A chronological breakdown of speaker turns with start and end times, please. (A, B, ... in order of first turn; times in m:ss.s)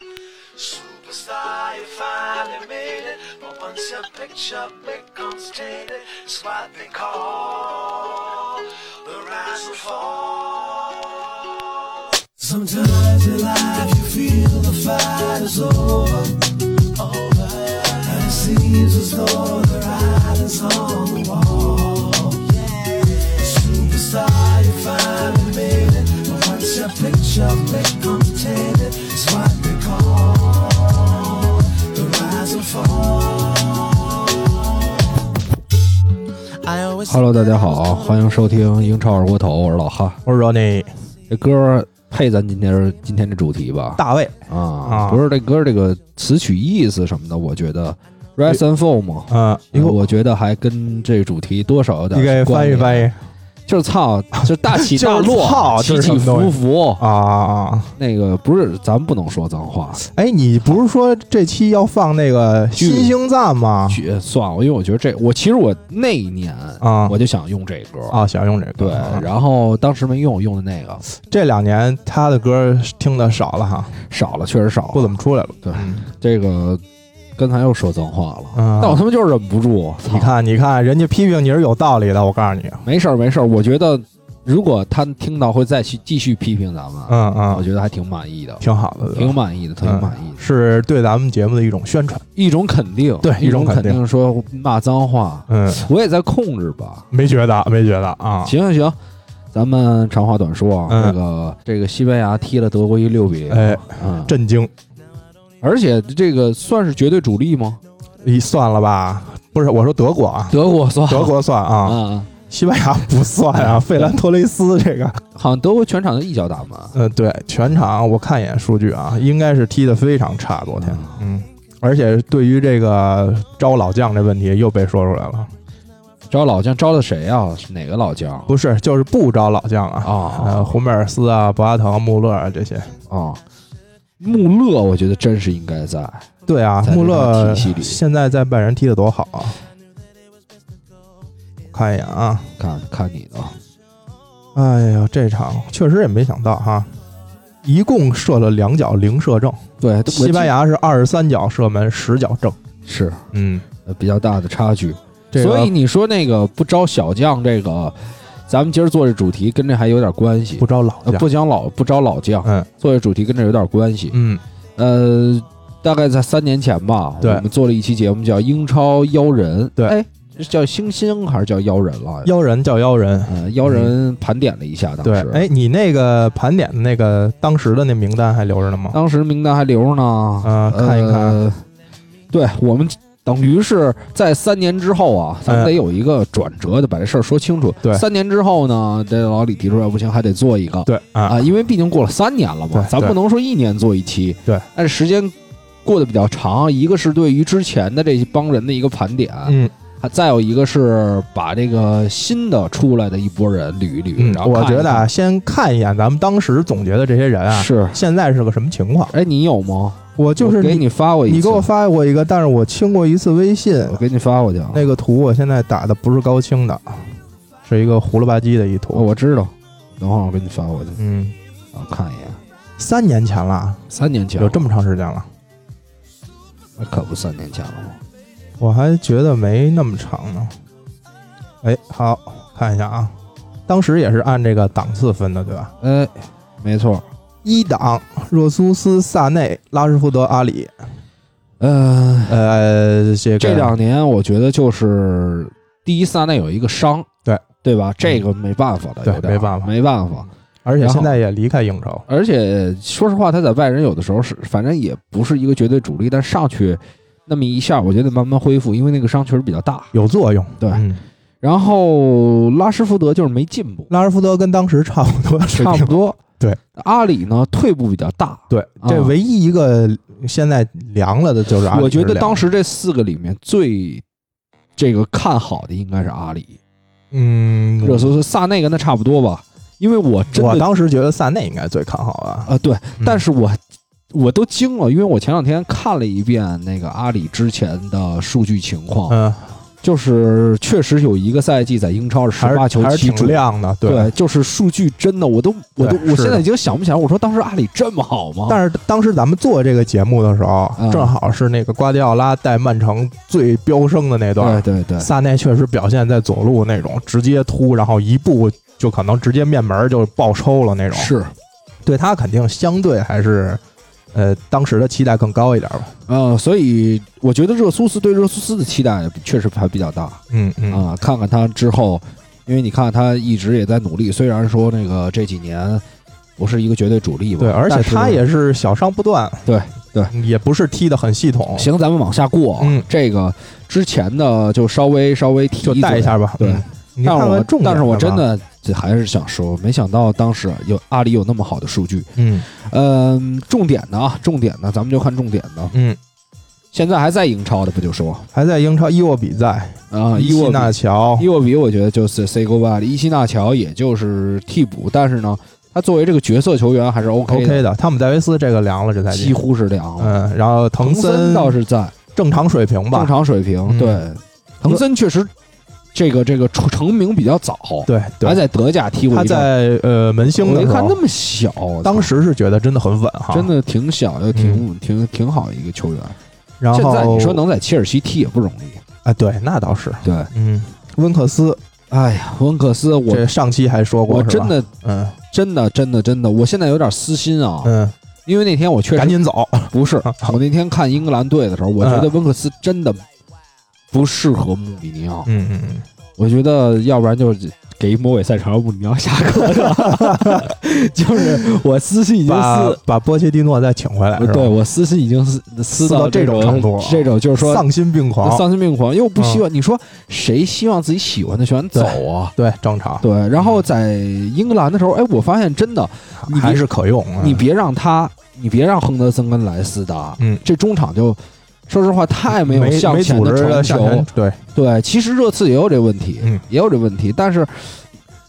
0:00.5-0:11.7 A
0:12.3-0:34.6 A
0:36.5-0:38.2 A
0:37.1-0:40.2 B
0:40.2-0:40.9 C
0:41.3-0:53.1 B
0:44.0-0:45.2 C
0:49.3-0:50.0 C
0:52.1-0:53.2 C
0:53.7-0:57.0 B
0:54.7-0:57.9 C
0:58.0-1:00.0 B
1:00.0-1:04.0 C
1:02.8-1:03.2 B
1:03.9-1:08.2 B
1:06.8-1:07.2 C
1:08.1-1:09.3 C
1:08.8-1:11.0 B
1:11.2-1:14.0 C
1:14.1-1:16.8 B
1:14.9-1:16.0 C
1:17.4-1:20.3 B
1:18.6-1:19.0 C
1:20.1-1:22.8 C
1:22.8-1:30.4 B
1:27.1-1:27.6 C
1:28.6-1:32.2 C
1:32.4-1:37.1 B
1:33.2-1:34.0 C
1:35.5-1:35.9 C
1:37.1-1:38.6 C
1:38.4-1:39.0 B
1:39.5-1:44.4 B
1:40.9-1:41.2 C
1:43.5-1:44.7 C
1:45.6-1:47.8 B
1:48.2-1:50.6 C
1:50.5-1:52.3 B
1:51.1-1:55.2 C
1:53.6-1:54.2 B
1:55.4-1:57.0 B
1:56.9-2:05.5 C
2:00.8-2:01.2 B
2:06.3-2:08.5 B
2:08.5-2:12.9 C
2:10.0-2:10.8 B
2:13.1-2:13.4 B
2:14.2-2:16.3 B
2:16.5-2:19.6 C
2:16.8-2:18.0 B
2:21.7-2:22.5 C
2:22.6-2:23.6 B
2:24.6-2:26.9 C
2:27.6-2:32.6 C
2:29.8-2:30.5 B
2:32.9-2:33.2 B
2:33.3-2:33.7 C
2:33.8-2:44.2 B
2:35.3-2:35.7 C
2:40.6-2:41.3 C
2:44.1-2:44.4 C
2:44.8-2:52.3 B
2:52.2-2:53.9 C
2:53.3-2:55.5 B
2:55.0-2:59.0 C
2:58.9-3:01.6 B
3:00.4-3:01.4 C
3:02.3-3:15.3 B
3:05.5-3:05.7 C
3:10.9-3:11.5 C
3:12.7-3:13.2 C
3:15.8-3:25.1 B
3:19.5-3:19.7 C
3:24.2-3:29.2 C
3:27.5-3:28.0 B
3:29.1-3:31.7 B
3:30.2-3:34.0 C
3:33.8-3:34.9 B
3:34.7-3:37.1 C
3:37.6-3:39.1 C
3:38.9-3:41.0 B
3:41.0-3:41.4 C
3:41.7-3:42.4 B
3:42.8-3:43.8 C
3:43.9-3:44.7 B
3:44.4-3:45.3 C
3:46.8-3:48.0 B
3:48.6-3:50.5 C
3:51.6-3:53.1 C
3:53.7-3:55.7 C
3:55.8-3:57.0 B
3:57.4-4:00.7 C
4:01.6-4:02.4 B
4:02.3-4:03.8 C
4:03.4-4:07.1 B
4:07.6-4:11.2 B
4:09.0-4:09.7 C
4:10.6-4:12.1 C
4:12.1-4:19.9 B
4:19.9-4:21.0 C
4:20.6-4:20.9 B
4:21.4-4:23.9 B
4:23.9-4:26.6 C
4:25.5-4:26.2 B
4:26.8-4:29.2 B
4:28.5-4:32.4 C
4:31.7-4:34.0 B
4:34.8-4:36.6 B
4:37.1-4:38.2 C
4:37.8-4:40.7 B
4:40.3-4:43.2 C
4:42.5-4:43.6 B
4:44.1-4:49.2 B
4:49.1-4:49.5 C
4:49.8-4:58.6 B
4:52.4-4:54.1 C
4:55.8-4:56.4 C
4:58.5-5:11.1 C
5:00.8-5:01.1 B
5:04.4-5:05.1 B
5:10.9-5:11.3 B
5:11.8-5:13.6 C
5:14.1-5:15.9 C
5:16.1-5:25.8 B
5:20.3-5:20.8 C
5:26.4-5:28.2 B
5:27.4-5:29.4 C
5:29.5-5:30.1 B
5:30.1-5:31.7 C
5:31.5-5:45.8 B
5:32.6-5:32.9 C
5:35.6-5:38.2 C
5:42.2-5:42.5 C
5:45.7-5:46.0 C
5:46.7-5:48.3 B
5:48.3-5:51.3 C
5:49.9-5:57.6 B
5:57.3-5:59.4 C
5:59.1-6:00.2 B
6:00.0-6:01.6 C
6:00.8-6:01.9 B
6:02.2-6:03.1 C
6:02.9-6:05.3 B
6:03.7-6:04.0 C
6:05.9-6:09.5 B
6:07.9-6:08.4 C
6:09.1-6:11.0 C
6:10.3-6:12.1 B
6:11.8-6:13.5 C
6:13.3-6:16.2 B
6:14.3-6:14.6 C
6:16.6-6:17.4 C
6:16.7-6:18.8 B
6:19.0-6:21.6 C
6:20.0-6:20.3 B
6:21.9-6:23.3 B
6:23.1-6:25.2 C
6:24.1-6:24.7 B
6:25.3-6:27.8 B
6:27.6-6:27.9 C
6:28.3-6:33.0 B
6:29.0-6:30.4 C
6:31.8-6:32.1 C
6:33.9-6:35.3 B
6:35.3-6:35.9 C
6:36.2-6:42.8 B
6:39.5-6:40.5 C
6:41.1-6:41.4 C
6:42.3-6:44.5 C
6:44.2-6:47.7 B
6:45.8-6:48.4 C
6:48.2-6:52.4 B
6:49.2-6:49.4 C
6:51.7-6:53.6 C
6:53.0-6:56.6 B
6:56.2-6:57.4 C
6:57.2-7:07.8 B
7:02.3-7:04.4 C